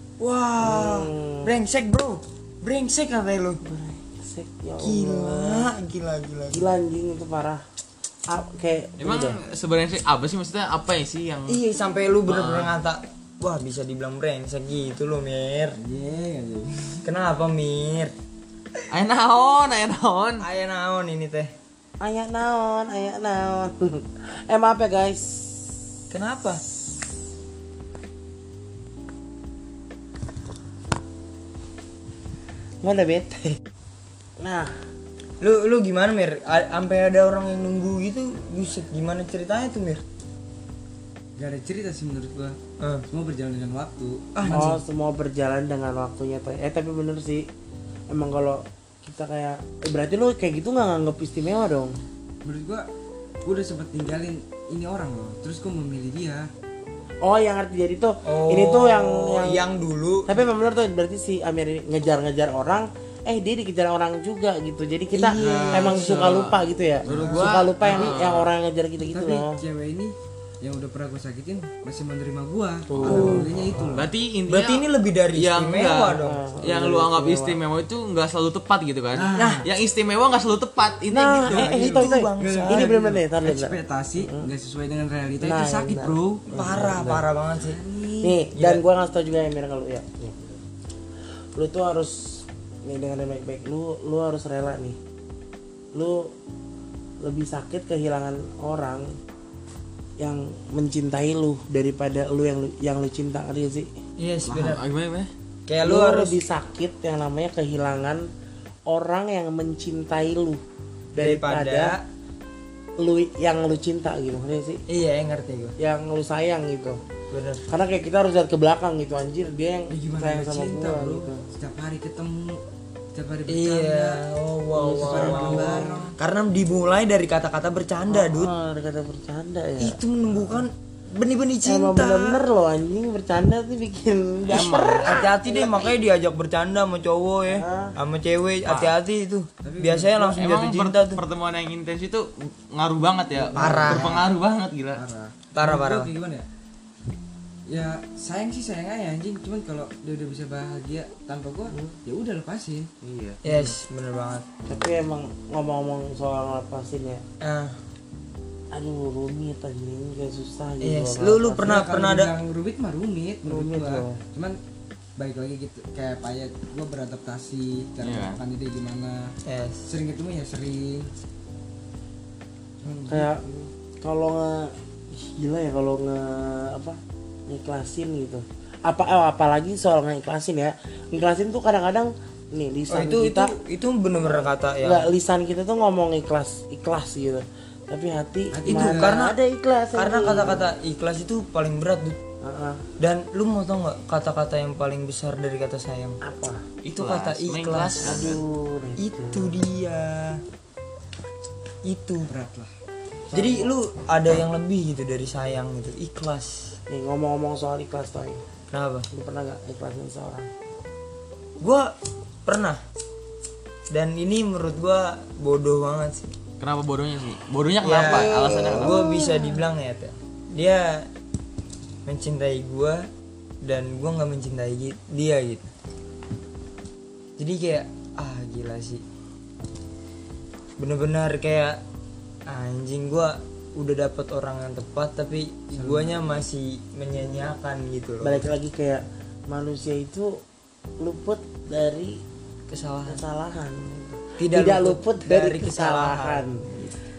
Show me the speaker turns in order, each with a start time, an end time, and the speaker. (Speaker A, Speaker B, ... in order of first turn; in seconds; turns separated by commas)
Speaker A: 0.2-3.6, Speaker B: 0.6-1.5, Speaker B: 3.6-5.7, Speaker A: 4.8-6.6, Speaker B: 6.5-7.6, Speaker B: 8.3-9.4, Speaker C: 9.0-11.6, Speaker A: 11.5-15.8, Speaker C: 12.3-12.7, Speaker D: 15.8-17.0, Speaker A: 17.0-18.1, Speaker C: 18.9-20.4, Speaker A: 20.4-21.5, Speaker B: 22.0-25.7, Speaker A: 26.1-26.6, Speaker B: 32.8-33.6, Speaker B: 34.4-34.7, Speaker A: 35.4-40.0, Speaker D: 41.4-44.8, Speaker A: 42.8-43.0, Speaker A: 44.4-44.8, Speaker B: 44.5-47.5, Speaker B: 48.1-52.0, Speaker D: 52.4-52.9, Speaker D: 53.4-56.5, Speaker B: 57.2-59.6, Speaker A: 58.2-60.4, Speaker B: 60.2-69.6, Speaker C: 65.3-68.5, Speaker A: 65.3-66.3, Speaker D: 65.3-66.1, Speaker D: 67.1-67.5, Speaker A: 67.1-68.0, Speaker D: 69.1-74.1, Speaker B: 72.9-73.6, Speaker A: 73.0-73.5, Speaker C: 73.9-81.7, Speaker A: 74.5-76.4, Speaker B: 76.2-77.6, Speaker D: 79.1-79.7, Speaker A: 79.3-79.7, Speaker B: 81.1-84.5, Speaker A: 81.4-83.2, Speaker D: 81.5-88.4, Speaker B: 85.4-87.2, Speaker A: 86.5-87.8, Speaker B: 88.2-90.6, Speaker A: 88.5-88.8, Speaker B: 91.5-95.0, Speaker B: 95.9-96.3, Speaker B: 97.2-99.1, Speaker B: 100.2-103.9, Speaker A: 104.2-104.8, Speaker D: 104.5-104.8, Speaker C: 104.5-105.3, Speaker A: 105.7-106.4, Speaker B: 105.8-108.3, Speaker B: 108.9-110.6, Speaker B: 111.1-111.9, Speaker A: 111.2-112.0, Speaker B: 113.0-114.8, Speaker A: 114.9-115.8, Speaker B: 115.8-117.0, Speaker A: 117.3-117.6, Speaker B: 117.7-121.5, Speaker D: 119.9-122.6, Speaker D: 123.1-124.2, Speaker A: 123.5-128.5, Speaker B: 124.7-126.0, Speaker D: 124.9-126.1, Speaker B: 128.1-130.0, Speaker A: 129.8-132.4, Speaker B: 131.6-135.9, Speaker C: 134.5-135.2, Speaker A: 135.0-141.2, Speaker B: 137.5-137.9, Speaker D: 139.6-140.4, Speaker C: 140.3-145.0, Speaker D: 143.4-144.3, Speaker A: 143.5-144.2, Speaker D: 144.9-146.4, Speaker A: 145.5-146.1, Speaker D: 147.7-152.9, Speaker B: 151.7-151.9, Speaker C: 153.0-153.4, Speaker D: 153.4-153.8, Speaker A: 153.4-154.4, Speaker B: 154.7-157.2, Speaker A: 157.4-157.8, Speaker B: 158.7-161.8, Speaker A: 160.8-162.3, Speaker D: 161.6-164.6, Speaker B: 163.4-164.2, Speaker D: 165.2-169.3, Speaker C: 168.0-168.4, Speaker A: 169.4-169.9, Speaker D: 169.9-171.1, Speaker D: 172.8-173.7, Speaker B: 173.1-173.4, Speaker B: 174.0-183.5, Speaker A: 182.9-185.1, Speaker B: 184.2-190.6, Speaker D: 188.5-189.2, Speaker A: 188.7-189.4, Speaker A: 189.9-192.2, Speaker B: 192.4-192.8, Speaker A: 193.0-196.2, Speaker B: 196.2-196.6, Speaker C: 196.8-198.4, Speaker A: 197.0-198.3, Speaker B: 198.0-199.6, Speaker A: 199.0-200.4, Speaker A: 201.8-202.3, Speaker D: 202.3-202.7, Speaker B: 203.3-203.7, Speaker A: 203.3-206.7, Speaker B: 206.9-208.4, Speaker A: 208.7-209.1, Speaker B: 209.1-210.5, Speaker A: 211.6-211.9, Speaker A: 212.4-212.8, Speaker A: 213.9-216.3, Speaker C: 216.6-219.1, Speaker A: 217.8-221.1, Speaker B: 218.0-219.1, Speaker A: 222.1-223.1, Speaker A: 223.6-225.7, Speaker A: 227.4-229.0, Speaker A: 230.8-231.8, Speaker A: 232.5-238.4, Speaker D: 235.7-236.2, Speaker B: 238.2-240.4, Speaker B: 241.0-242.2, Speaker A: 242.7-243.2, Speaker B: 243.1-246.6, Speaker A: 244.4-246.9